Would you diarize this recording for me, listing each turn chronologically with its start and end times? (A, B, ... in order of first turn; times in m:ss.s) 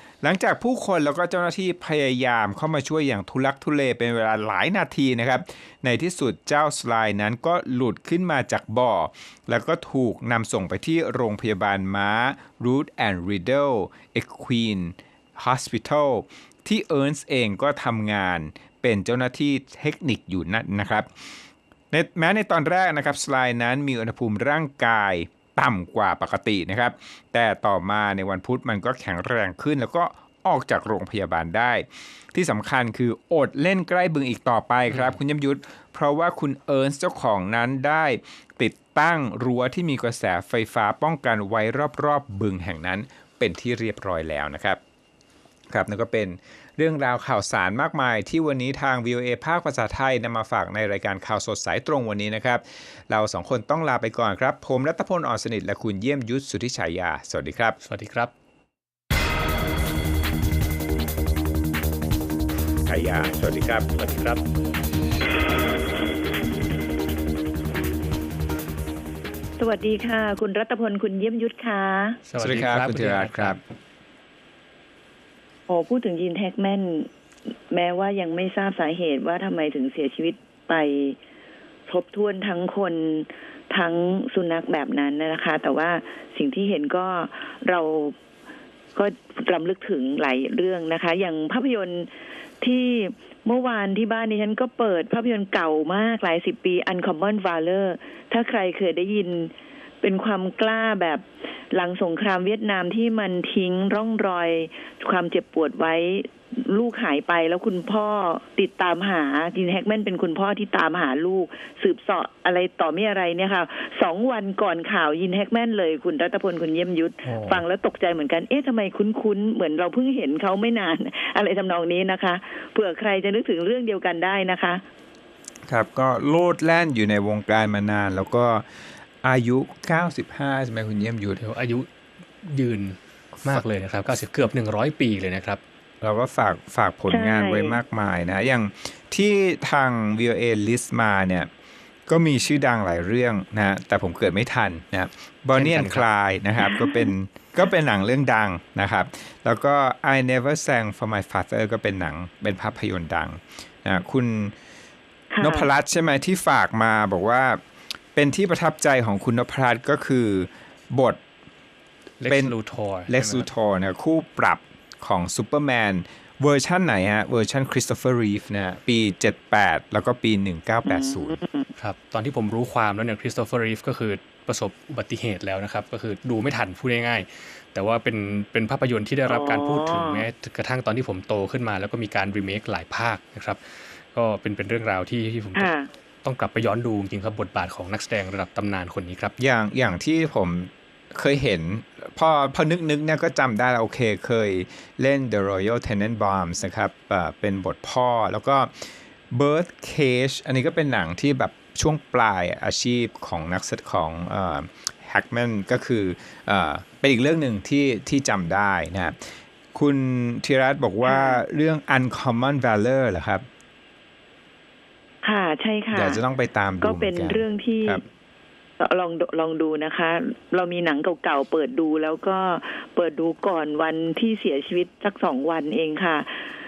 0:00.2-0:21.1 A
0:21.9-0:44.8 A
0:45.7-0:57.8 A
0:57.8-0:58.3 B
1:02.9-1:04.4 A
1:09.6-1:12.2 C
1:12.3-1:13.6 B
1:12.4-1:13.6 A
1:15.7-1:17.1 C
1:17.7-1:21.2 C
1:21.9-1:28.2 C
1:29.0-1:32.1 C
1:32.6-2:04.8 C
2:05.7-2:08.7 A
2:09.2-2:11.4 A
2:11.4-2:11.9 B
2:12.4-2:15.6 B
2:16.0-2:21.5 A
2:17.1-2:17.8 C
2:22.1-2:34.6 A
2:25.6-2:26.0 B
2:26.6-2:27.1 C
2:35.3-2:35.7 C
2:35.4-2:37.6 A
2:38.2-2:41.2 A
2:42.2-2:43.5 B
2:43.1-2:51.4 A
2:50.9-2:51.7 C
2:51.8-3:03.6 B
2:59.3-3:00.3 C
3:04.1-3:05.7 B
3:05.6-3:05.9 C
3:06.2-3:09.3 B
3:09.4-3:29.2 A
3:29.7-3:33.4 A
3:31.0-3:31.4 C
3:35.2-3:36.2 C
3:35.9-3:38.0 A
3:36.8-3:38.0 C
3:38.8-3:46.4 C